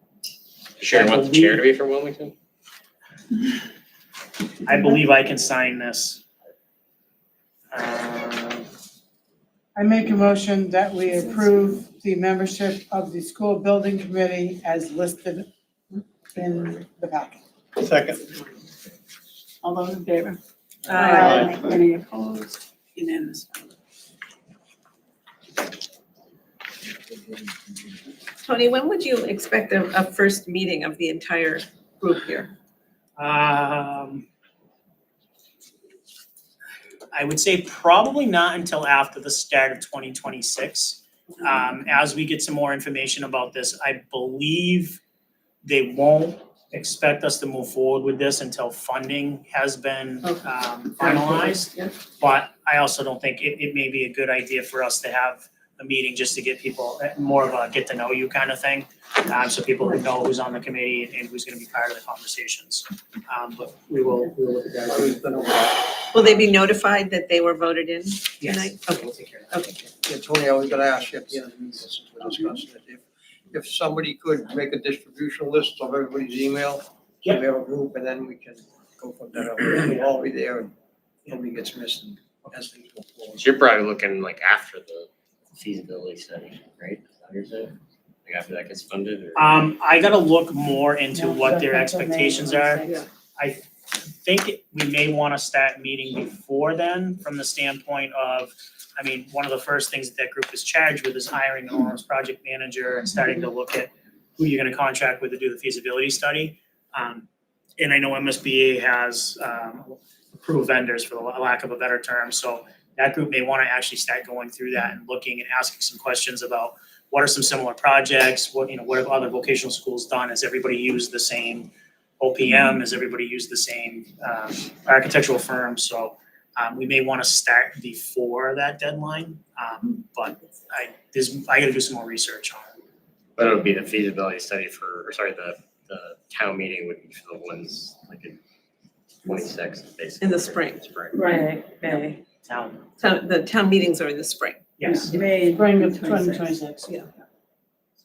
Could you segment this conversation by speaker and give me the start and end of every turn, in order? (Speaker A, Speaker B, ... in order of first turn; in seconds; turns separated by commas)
Speaker A: 0.8-2.3, Speaker B: 0.9-1.6, Speaker B: 4.6-6.2, Speaker B: 7.7-8.6, Speaker C: 9.7-15.5, Speaker C: 16.3-17.4, Speaker D: 17.8-18.2, Speaker E: 19.6-20.4, Speaker F: 20.9-21.4, Speaker E: 20.9-23.7, Speaker D: 21.2-21.5, Speaker F: 28.4-32.5, Speaker B: 33.2-34.2, Speaker B: 37.1-45.0, Speaker B: 45.6-65.2, Speaker F: 50.2-51.9, Speaker D: 64.8-66.4, Speaker F: 66.1-69.8, Speaker B: 68.4-69.5, Speaker D: 70.0-80.7, Speaker D: 81.2-83.5, Speaker A: 83.4-87.7, Speaker A: 88.2-89.7, Speaker B: 89.3-92.8, Speaker C: 91.1-93.0, Speaker B: 93.4-107.3, Speaker B: 107.8-132.7, Speaker A: 133.4-138.4, Speaker A: 139.2-141.2, Speaker F: 140.2-142.2, Speaker E: 141.1-142.0, Speaker B: 142.4-142.8, Speaker F: 143.0-144.7, Speaker B: 144.8-145.2, Speaker E: 144.8-146.6, Speaker C: 145.5-146.9